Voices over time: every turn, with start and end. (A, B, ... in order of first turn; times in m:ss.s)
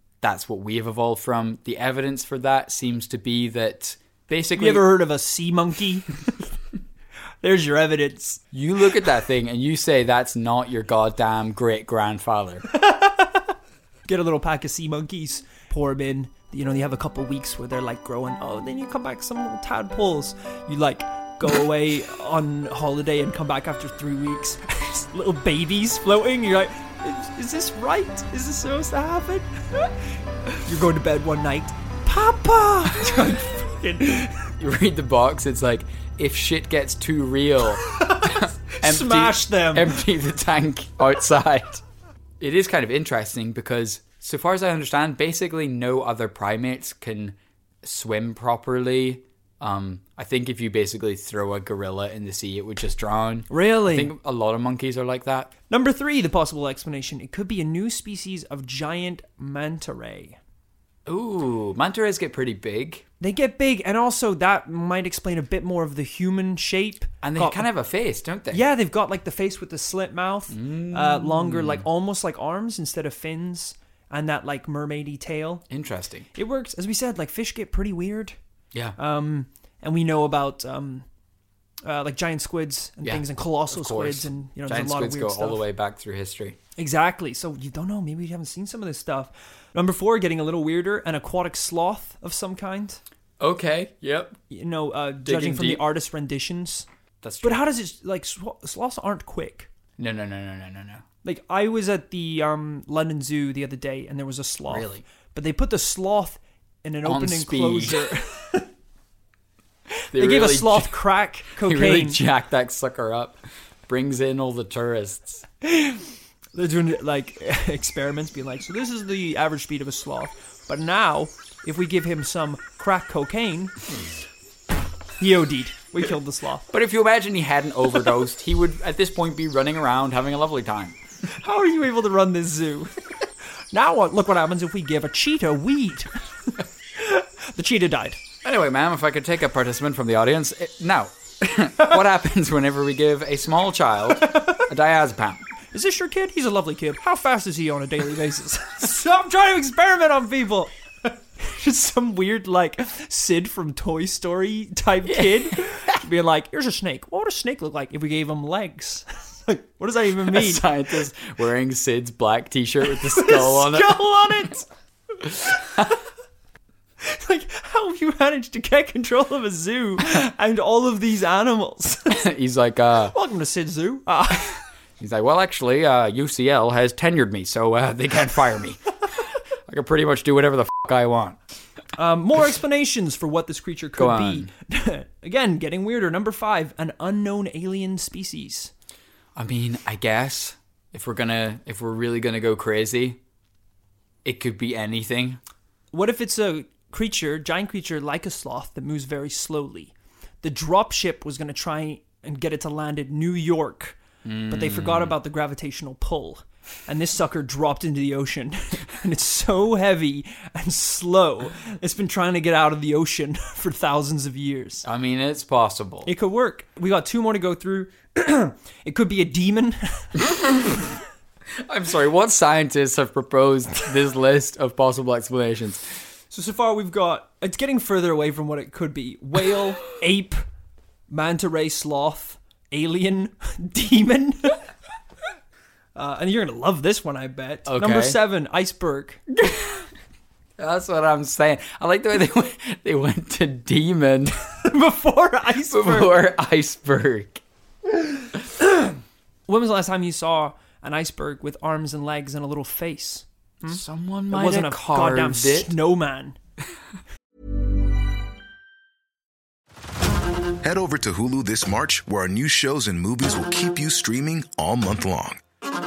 0:00.2-0:04.9 A
0:04.6-0:06.3 B
0:07.4-0:08.4 B
0:08.5-0:12.6 A
0:12.7-0:13.4 B
0:14.1-0:29.9 B
0:30.5-0:34.5 B
0:34.6-0:41.8 A
0:37.8-0:40.0 B
0:42.4-0:55.5 A
0:53.5-0:54.1 B
0:55.7-1:00.4 B
1:01.0-1:03.0 A
1:03.2-1:07.7 B
1:07.2-1:08.6 A
1:08.5-1:15.6 B
1:10.5-1:11.8 A
1:15.7-1:16.3 A
1:16.3-1:18.4 B
1:19.0-1:21.0 B
1:21.8-1:25.6 B
1:23.0-1:26.6 A
1:26.8-1:33.0 B
1:33.4-1:34.4 A
1:34.5-1:36.9 B
1:35.2-1:35.8 A
1:37.2-1:37.6 A
1:37.4-1:39.7 B
1:40.0-1:41.0 A
1:41.2-1:48.7 B
1:44.7-1:45.0 A
1:47.0-1:48.1 A
1:50.1-1:51.0 A
1:50.1-1:52.2 B
1:51.6-1:55.4 A
1:55.6-2:03.7 B
2:05.2-2:06.7 B
2:06.7-2:11.0 A
2:11.3-2:13.0 B
2:13.7-2:16.1 B
2:17.0-2:18.2 B
2:18.4-2:25.4 A
2:25.7-2:40.6 B
2:35.0-2:36.0 A
2:40.3-2:44.0 A
2:43.0-2:44.7 B
2:47.0-2:52.2 B
2:52.1-2:53.1 A
2:53.1-2:54.6 B
2:55.0-2:58.9 A
2:59.7-3:01.4 A
3:02.0-3:08.7 B
3:04.0-3:04.5 A
3:09.3-3:13.2 A
3:14.2-3:15.4 A
3:15.9-3:34.8 B
3:24.2-3:25.1 A
3:34.8-3:36.1 A
3:36.0-3:40.2 B
3:40.2-3:40.9 A
3:41.6-3:45.8 A
3:46.3-3:50.4 B
3:51.1-3:54.6 B
3:55.9-3:59.2 B
3:57.7-3:58.2 A
3:59.3-3:59.8 A
4:00.6-4:04.4 A
4:04.6-4:06.1 B
4:05.7-4:07.4 A
4:08.6-4:08.9 B
4:09.5-4:16.4 B
4:13.6-4:15.8 A
4:20.6-4:25.4 C